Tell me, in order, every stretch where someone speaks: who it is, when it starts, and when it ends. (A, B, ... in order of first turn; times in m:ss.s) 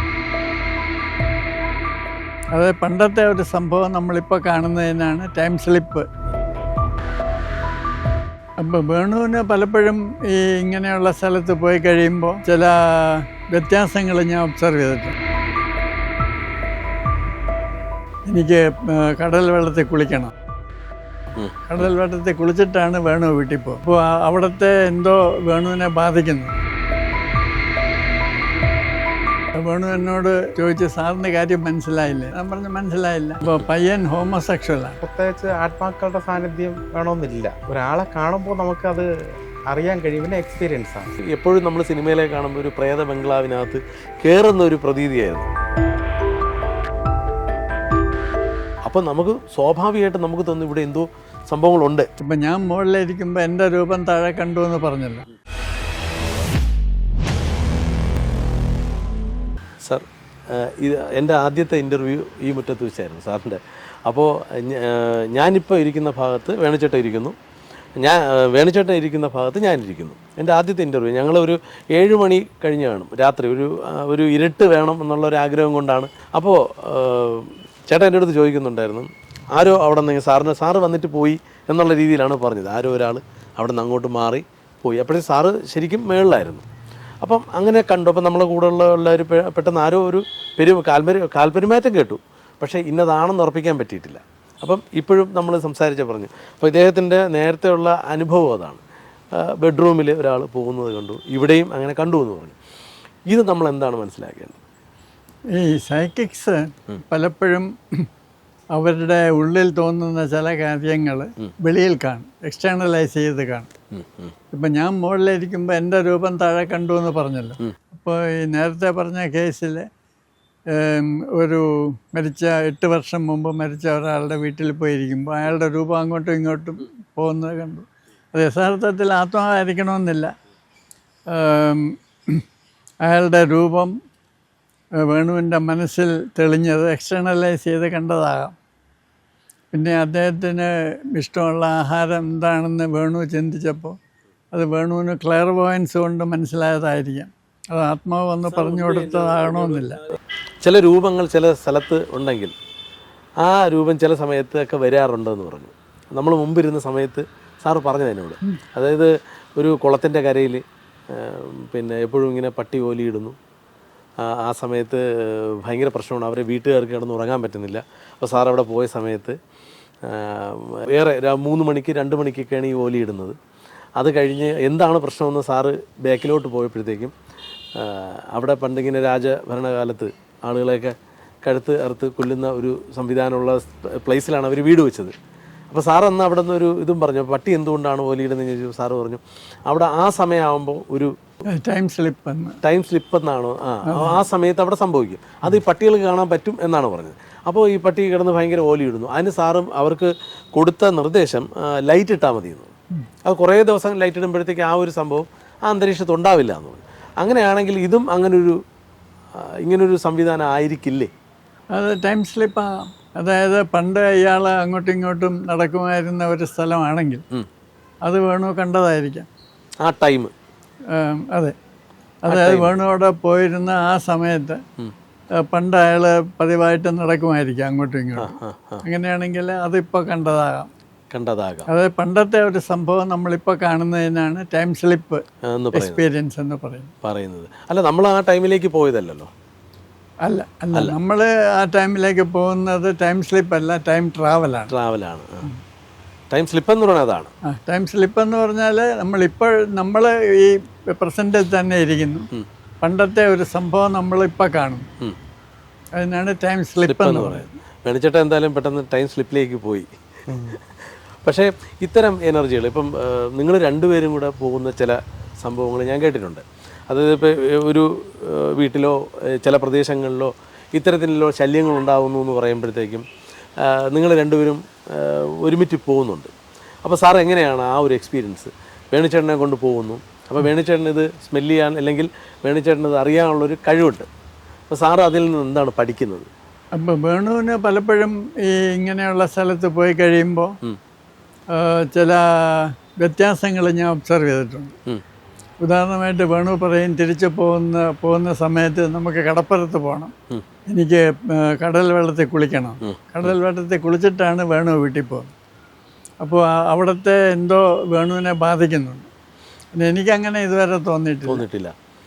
0:02.5-0:06.1 A
0:08.6-0:15.1 A
0:18.3-0:20.3 A
0:21.3-0:21.6 B
0:21.7-0:26.6 A
0:29.6-0:35.0 A
0:35.0-0:39.1 C
0:39.7-0:41.1 C
0:41.2-0:45.5 B
0:48.8-0:52.1 B
0:52.2-0:55.2 A
0:59.8-1:07.4 B
1:08.0-1:26.6 B
1:27.2-1:38.8 B
1:39.4-1:42.6 B
1:43.3-1:44.6 B
1:45.5-1:48.1 A
1:48.7-1:53.7 A
1:53.9-1:54.3 B
1:54.5-1:59.9 A
2:00.7-2:10.3 A
2:11.3-2:12.4 A
2:13.0-2:13.9 A
2:15.0-2:18.5 A
2:19.7-2:24.0 A
2:24.5-2:30.0 A
2:28.6-2:29.8 B
2:30.6-2:32.5 B
2:33.4-2:43.4 B
2:44.2-2:49.4 B
2:50.0-2:53.4 B
2:54.0-2:57.1 B
2:57.8-3:05.1 B
3:05.7-3:11.1 B
3:11.5-3:12.6 A
3:12.6-3:22.7 B
3:13.8-3:14.2 A
3:23.2-3:28.6 B
3:29.4-3:31.1 B
3:31.7-3:37.2 A
3:38.0-3:39.3 A
3:39.8-3:40.3 B
3:40.9-3:41.5 A
3:42.2-3:44.6 A
3:42.3-3:42.8 B
3:45.4-3:48.3 A
3:48.2-3:48.8 B
3:48.8-3:50.7 A
3:51.1-3:51.7 B
3:51.7-3:55.2 A
3:55.4-3:56.0 B
3:55.7-3:56.9 A
3:57.0-3:59.3 B
4:00.2-4:04.7 A
4:04.7-4:05.5 B
4:06.3-4:07.3 B
4:07.4-4:12.3 A
4:12.8-4:14.9 A
4:16.0-4:17.6 A
4:16.8-4:19.9 B
4:20.3-4:20.6 C
4:21.2-4:33.0 B
4:33.6-4:36.3 B
4:36.8-4:44.1 B
4:44.7-4:46.3 B
4:46.8-4:50.5 A
4:51.5-4:54.7 A
4:55.6-5:00.1 A
5:00.7-5:05.3 A
5:02.8-5:03.3 B
5:06.2-5:09.1 A
5:09.8-5:11.4 A
5:11.3-5:11.7 B